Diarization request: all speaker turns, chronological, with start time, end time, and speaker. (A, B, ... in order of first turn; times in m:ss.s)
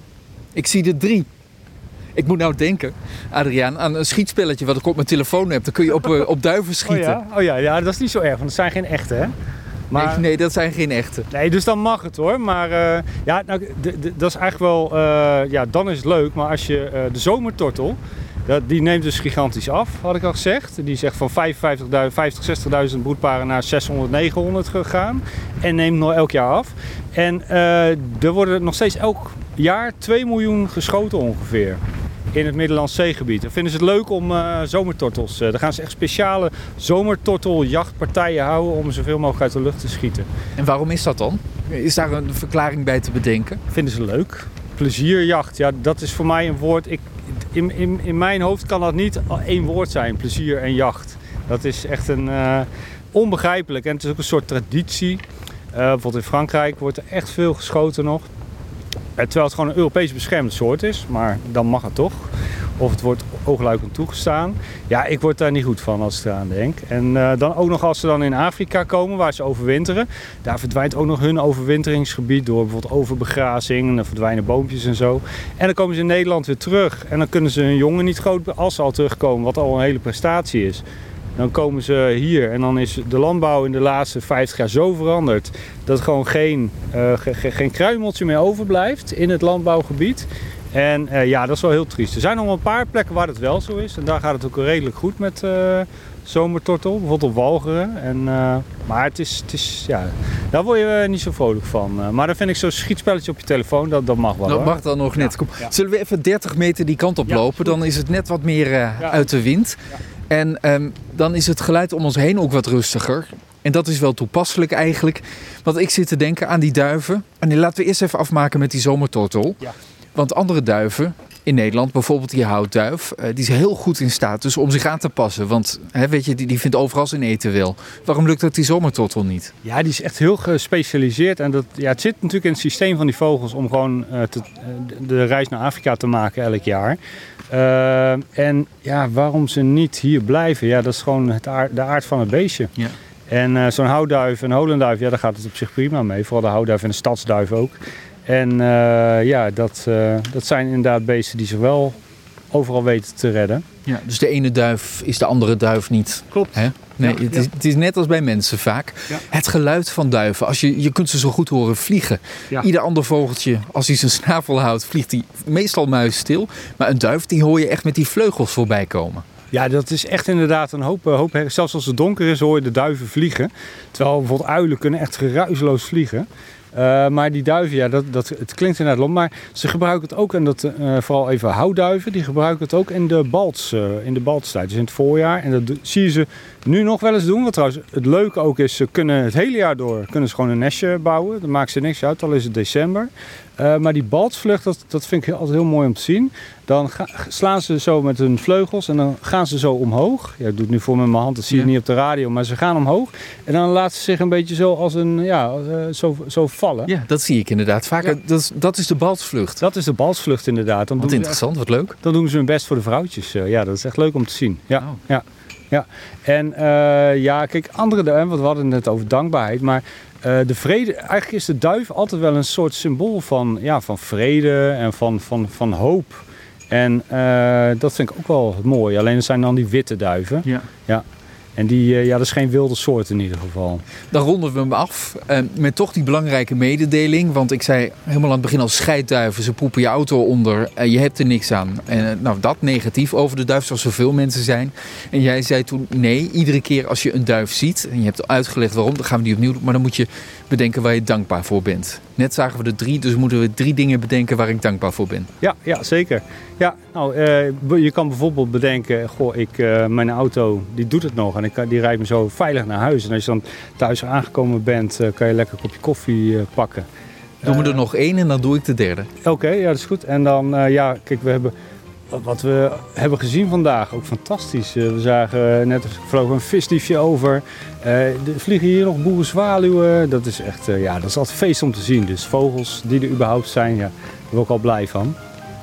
0:00.5-0:01.3 A
0:02.2-0:07.2 A
0:06.9-0:09.3 B
0:09.9-0:10.2 B
0:09.9-0:11.3 A
0:11.3-0:31.8 B
0:32.3-0:40.3 B
0:40.6-0:43.6 A
0:43.7-0:58.3 B
0:59.2-1:20.8 B
1:21.4-1:45.7 B
1:44.5-1:59.6 A
1:47.3-1:47.8 B
2:00.2-2:09.5 A
2:09.6-2:17.0 B
2:17.5-2:22.7 B
2:23.3-2:32.0 B
2:32.5-2:33.6 B
2:33.9-2:49.2 A
2:36.3-2:37.5 B
2:49.5-3:26.9 B
3:26.9-3:29.6 A
3:29.6-3:31.4 B
3:31.0-3:32.0 A
3:32.0-3:51.0 B
3:51.6-3:53.8 B
3:54.1-4:15.3 A
4:15.4-4:26.9 B
4:27.4-4:27.8 B
4:27.4-4:29.1 A
4:29.2-4:31.5 B
4:32.1-4:45.2 B